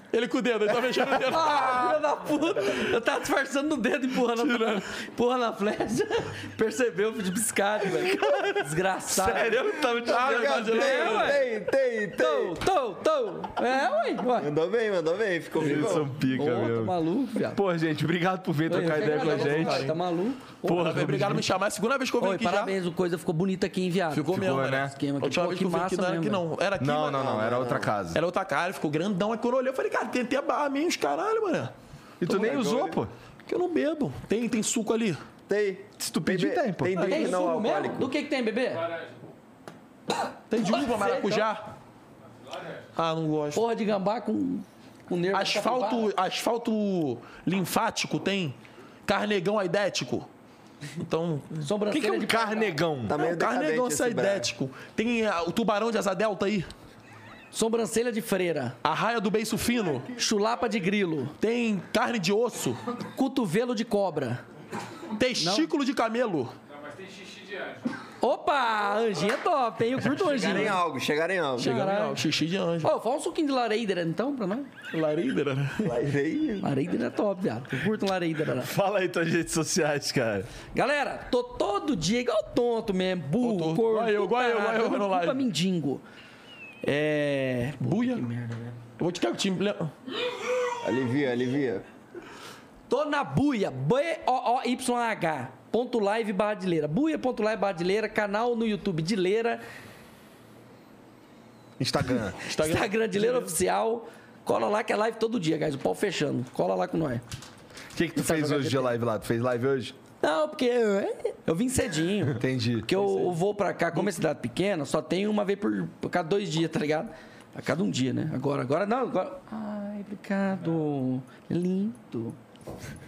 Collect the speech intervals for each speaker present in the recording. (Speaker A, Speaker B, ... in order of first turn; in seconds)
Speaker A: 0.1-2.0, 4.3-4.9, 10.0-11.5, 15.6-16.0, 18.7-20.0, 20.6-22.8, 24.1-27.5, 28.1-31.7, 33.5-35.2, 37.0-37.5, 40.5-41.7, 43.0-43.6, 45.3-50.3, 50.9-52.1, 53.1-56.7, 58.8-60.1, 61.4-62.8, 65.1-66.5, 70.3-70.8, 71.6-72.9, 74.9-76.0, 83.4-85.5, 87.8-88.3, 89.0-89.9, 102.5-103.6, 113.0-113.4
Speaker B: 1.2-9.8, 10.7-11.5, 12.2-14.5, 16.2-17.6, 18.7-20.6, 22.2-26.4, 37.0-39.0, 40.6-41.5, 43.5-46.1, 51.6-52.8, 57.5-58.8, 60.1-61.4, 63.0-64.4, 65.4-65.7, 68.2-70.8, 71.6-72.2, 72.8-74.7, 76.6-78.7, 80.7-86.0, 86.8-88.8, 92.9-99.6, 102.5-107.2, 108.2-108.9, 110.2-122.4
Speaker C: 8.1-10.7, 15.6-17.0, 17.5-19.9, 20.6-21.5, 24.3-24.9, 26.8-28.2, 32.2-33.1, 36.0-37.0, 52.0-53.2, 78.5-80.5, 101.8-102.4, 107.9-110.0, 112.4-112.9
Speaker D: 10.0-12.6, 14.4-16.1, 27.2-27.9, 32.2-33.0, 35.5-38.1, 53.1-54.5, 70.1-71.8, 75.8-76.7, 90.8-91.8